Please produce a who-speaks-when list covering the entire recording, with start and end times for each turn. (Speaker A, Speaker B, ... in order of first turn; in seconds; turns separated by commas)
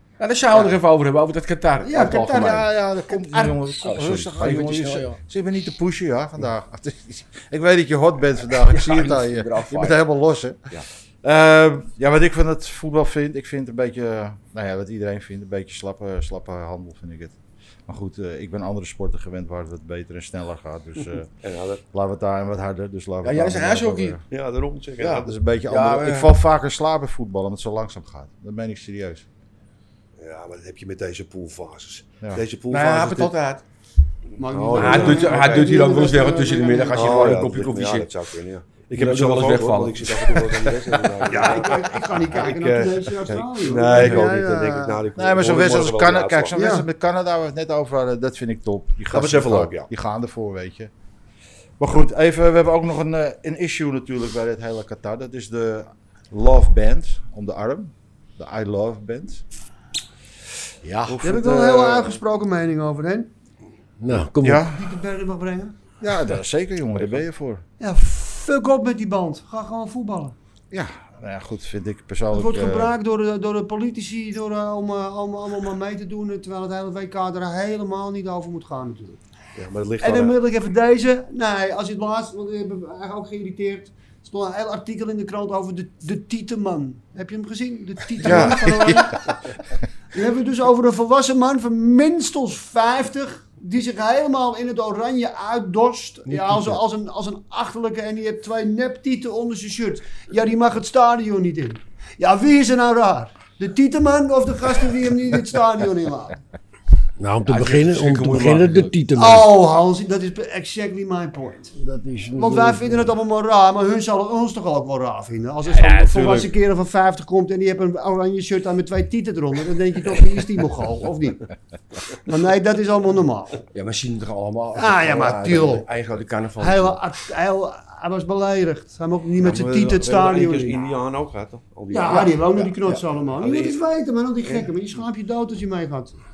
Speaker A: 0.2-2.6, Speaker B: 1.8-3.7, Speaker C: 2.3-10.7, Speaker A: 3.8-5.2, Speaker A: 8.5-10.1, Speaker C: 11.2-17.4, Speaker C: 17.9-21.3, Speaker D: 21.4-21.8, Speaker C: 21.9-24.2, Speaker A: 23.2-24.2, Speaker D: 24.3-25.4, Speaker A: 25.0-26.3, Speaker C: 25.2-29.3, Speaker D: 30.2-33.3, Speaker A: 32.7-33.6, Speaker B: 34.4-37.5, Speaker D: 34.4-36.2, Speaker A: 34.7-38.1, Speaker D: 36.9-46.6, Speaker A: 39.0-40.5, Speaker C: 40.5-40.9, Speaker B: 41.3-45.0, Speaker C: 43.9-44.3, Speaker C: 45.2-50.9, Speaker B: 46.5-46.9, Speaker D: 49.1-49.9, Speaker C: 51.8-59.4, Speaker C: 61.1-62.1, Speaker B: 61.2-63.3, Speaker E: 64.0-64.7, Speaker C: 64.4-64.8, Speaker B: 64.5-65.8, Speaker C: 66.0-67.6, Speaker B: 67.8-70.4, Speaker C: 70.7-72.9, Speaker B: 72.3-79.2, Speaker D: 79.5-80.4, Speaker B: 80.0-89.3, Speaker C: 88.2-89.3, Speaker D: 88.2-89.0, Speaker B: 90.1-106.4, Speaker A: 96.3-96.8, Speaker E: 107.2-109.6, Speaker A: 107.5-109.0, Speaker B: 109.2-111.7, Speaker E: 111.8-113.1, Speaker B: 112.3-121.5, Speaker C: 115.8-116.4, Speaker B: 122.2-123.6, Speaker A: 123.7-127.0, Speaker B: 124.8-125.9, Speaker B: 126.6-130.8, Speaker D: 129.4-133.8, Speaker B: 131.9-136.2